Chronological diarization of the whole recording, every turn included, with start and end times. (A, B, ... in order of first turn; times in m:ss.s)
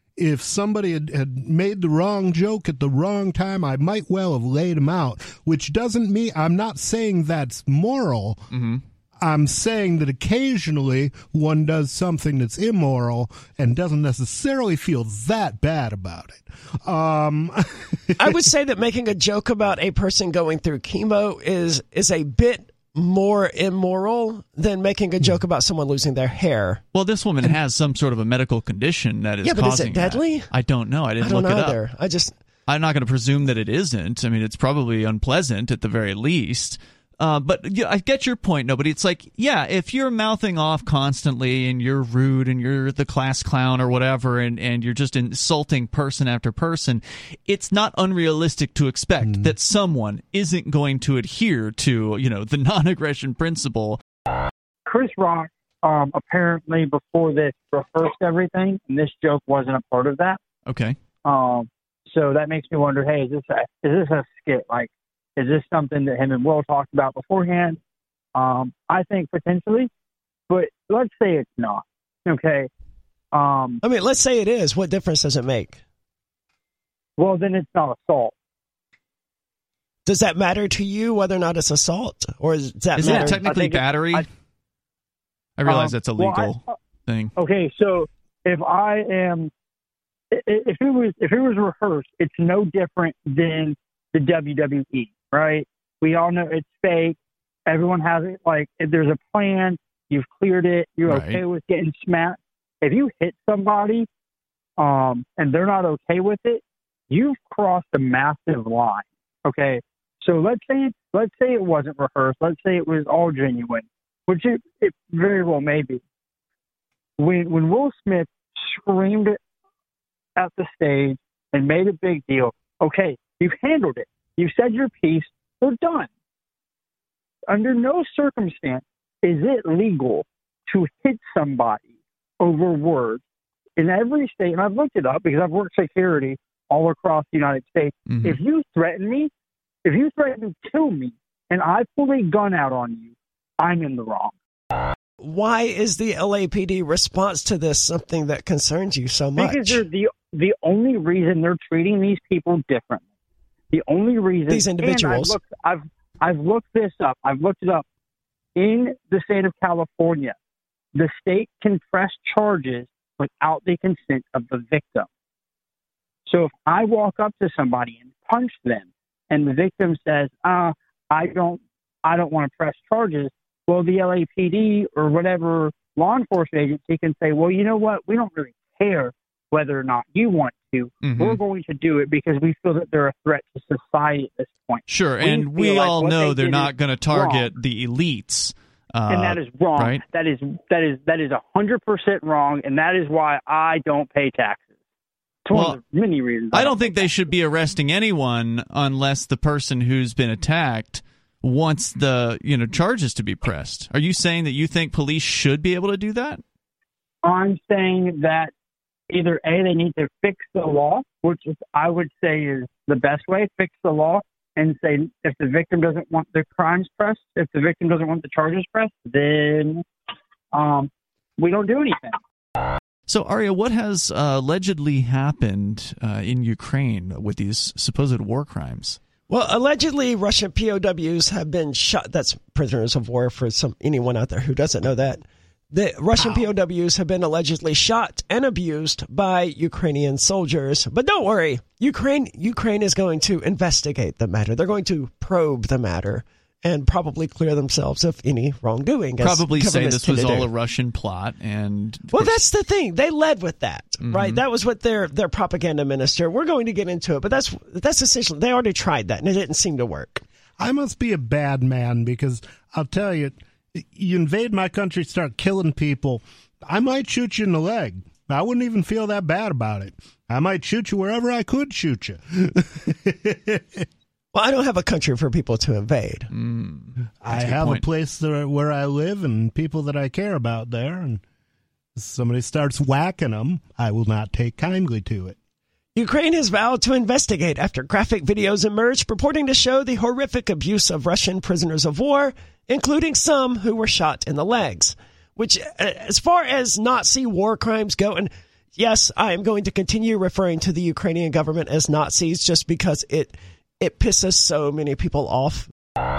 0:00.2-0:08.4 A
0:08.5-0:08.8 B
0:09.2-0:18.4 A
0:18.2-0:26.8 C
0:26.9-0:31.8 B
0:29.4-0:30.5 C
0:31.2-0:32.3 C
0:32.7-0:54.0 B
0:49.2-0:49.5 A
0:54.8-1:00.4 D
1:00.7-1:01.0 B
1:01.2-1:07.8 D
1:08.3-1:09.9 D
1:10.5-1:12.7 D
1:13.3-1:13.8 D
1:13.8-1:15.8 C
1:17.2-1:18.3 D
1:20.0-1:23.8 C
1:23.0-1:24.2 B
1:23.1-1:24.2 D
1:25.6-1:27.3 B
1:25.6-1:26.7 D
1:27.4-1:29.5 D
1:30.3-1:44.1 D
1:41.1-1:41.4 B
1:44.8-1:56.0 D
1:57.2-1:59.4 D
2:00.4-2:06.1 D
2:07.5-2:11.8 D
2:12.4-2:13.2 D
2:13.8-2:19.3 D
2:18.1-2:18.4 B
2:19.8-2:24.3 D
2:25.2-2:29.8 C
2:29.4-2:33.0 D
2:33.7-2:37.8 D
2:34.5-2:35.4 C
2:38.6-2:40.3 D
2:40.9-2:45.1 D
2:46.3-3:07.5 D
3:01.0-3:01.4 B
3:04.9-3:10.0 B
3:09.1-3:14.7 D
3:15.4-3:17.0 D
3:15.5-3:15.8 B
3:16.5-3:26.4 B
3:27.2-3:28.5 D
3:29.1-3:39.8 D
3:40.5-3:42.2 D
3:43.1-3:49.0 B
3:49.3-4:10.5 C
4:09.2-4:12.4 B
4:12.1-4:20.2 C
4:14.0-4:14.4 B
4:20.6-4:33.8 A
4:34.3-4:36.3 C
4:36.3-4:37.8 B
4:37.2-4:41.2 A
4:42.0-4:45.4 A
4:45.9-5:05.7 C